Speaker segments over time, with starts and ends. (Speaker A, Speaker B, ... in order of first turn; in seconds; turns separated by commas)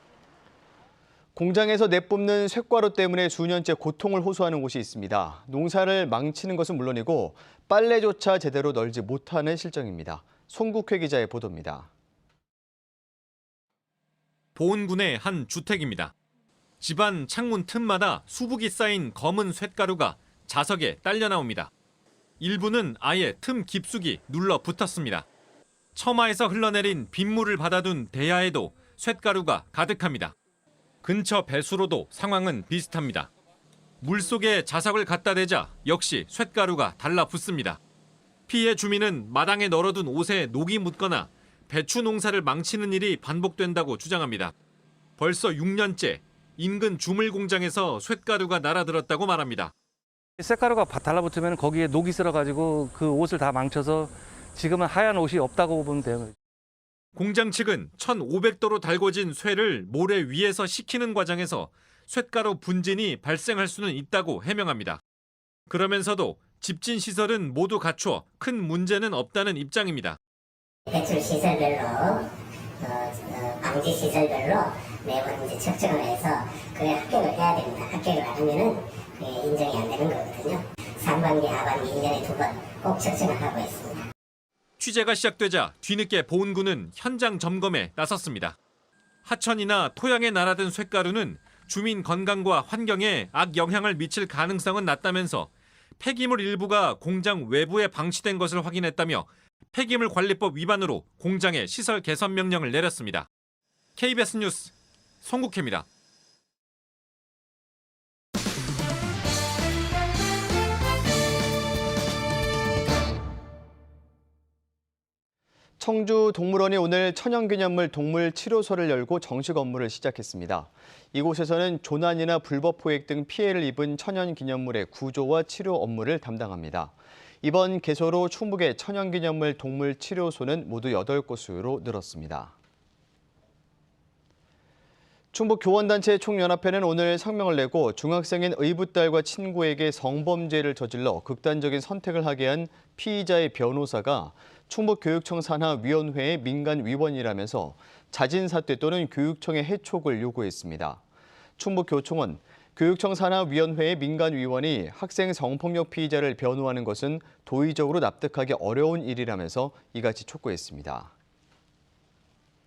Speaker A: 1.3-11.9, Speaker B: 14.6-16.1, Speaker B: 16.8-21.7, Speaker B: 22.4-25.2, Speaker B: 25.9-30.3, Speaker B: 31.0-33.3, Speaker B: 34.0-37.8, Speaker B: 38.5-44.5, Speaker B: 45.2-49.7, Speaker C: 50.4-56.3, Speaker B: 57.1-65.0, Speaker B: 65.7-70.2, Speaker D: 70.9-84.1, Speaker B: 84.8-88.5, Speaker B: 89.2-103.3, Speaker B: 104.0-105.8, Speaker A: 115.8-132.5, Speaker A: 135.3-151.0, Speaker A: 151.6-161.1